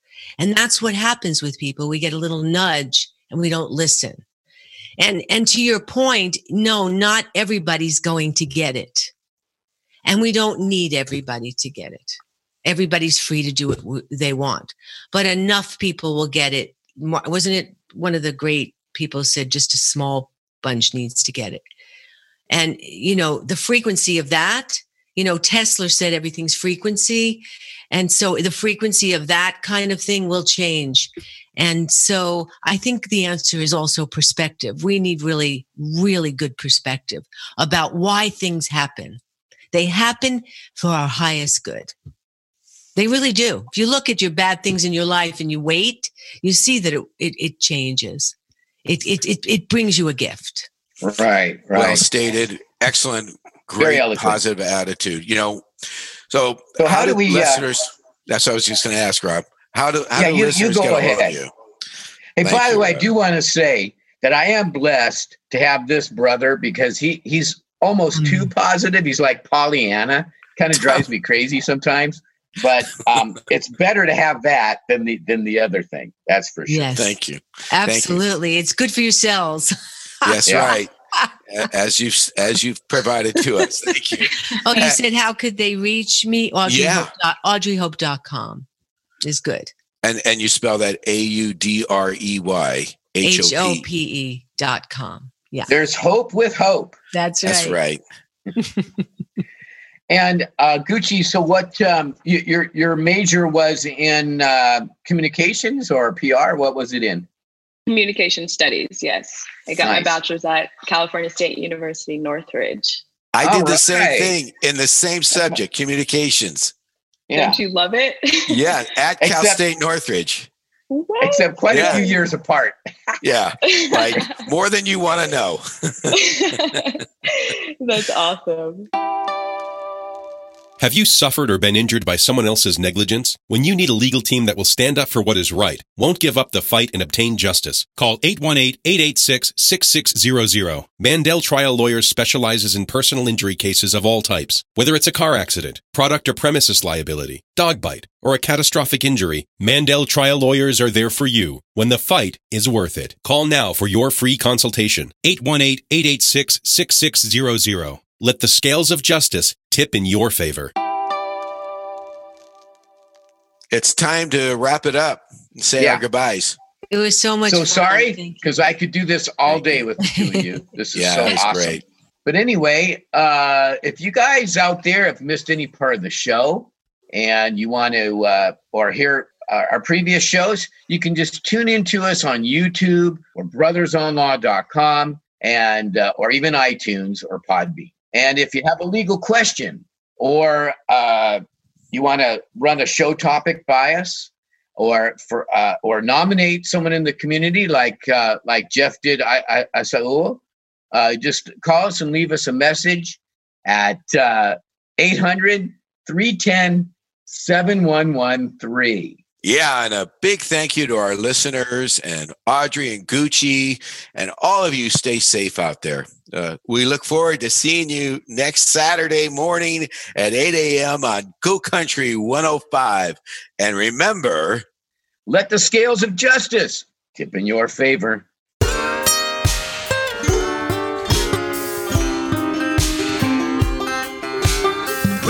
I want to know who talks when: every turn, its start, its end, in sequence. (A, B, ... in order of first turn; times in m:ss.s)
0:00.4-0:04.2 A
0:05.0-0:09.1 A
0:10.1-0:21.6 A
0:22.5-0:39.2 A
0:39.7-0:41.9 A
0:43.0-0:48.3 A
0:48.8-0:50.7 A
0:51.0-0:52.0 B
0:51.7-0:55.7 C
0:53.8-0:54.4 B
0:56.3-1:01.5 C
0:56.8-0:57.6 B
1:00.2-1:01.4 B
1:02.4-1:16.9 B
1:02.4-1:03.0 C
1:08.2-1:08.5 A
1:16.7-1:17.1 A
1:17.0-1:18.2 C
1:17.7-1:21.3 A
1:20.2-1:20.9 C
1:20.5-1:20.8 B
1:21.5-1:25.0 C
1:23.4-1:23.9 A
1:24.6-1:28.7 A
1:26.7-1:27.1 C
1:29.2-1:29.7 A
1:30.0-1:33.8 C
1:33.2-1:35.7 A
1:35.7-1:37.0 B
1:37.1-1:37.8 A
1:37.4-1:38.0 C
1:38.6-1:38.8 A
1:40.1-1:47.3 B
1:47.9-1:53.0 D
1:49.8-1:50.2 B
1:53.3-1:56.7 C
1:53.4-1:54.4 B
1:57.3-1:57.6 B
1:57.3-1:58.7 D
1:58.5-2:00.5 C
1:59.2-1:59.6 B
2:00.9-2:02.2 D
2:01.2-2:03.1 B
2:01.7-2:02.0 C
2:03.2-2:06.2 C
2:03.7-2:04.4 D
2:06.1-2:08.9 D
2:10.8-2:40.7 E
2:43.7-2:46.6 C
2:46.9-2:48.5 A
2:47.5-3:20.4 B
2:50.0-2:50.4 A
2:51.0-2:51.8 C
3:20.9-3:29.2 B
3:29.4-3:44.6 C
3:45.3-3:48.3 B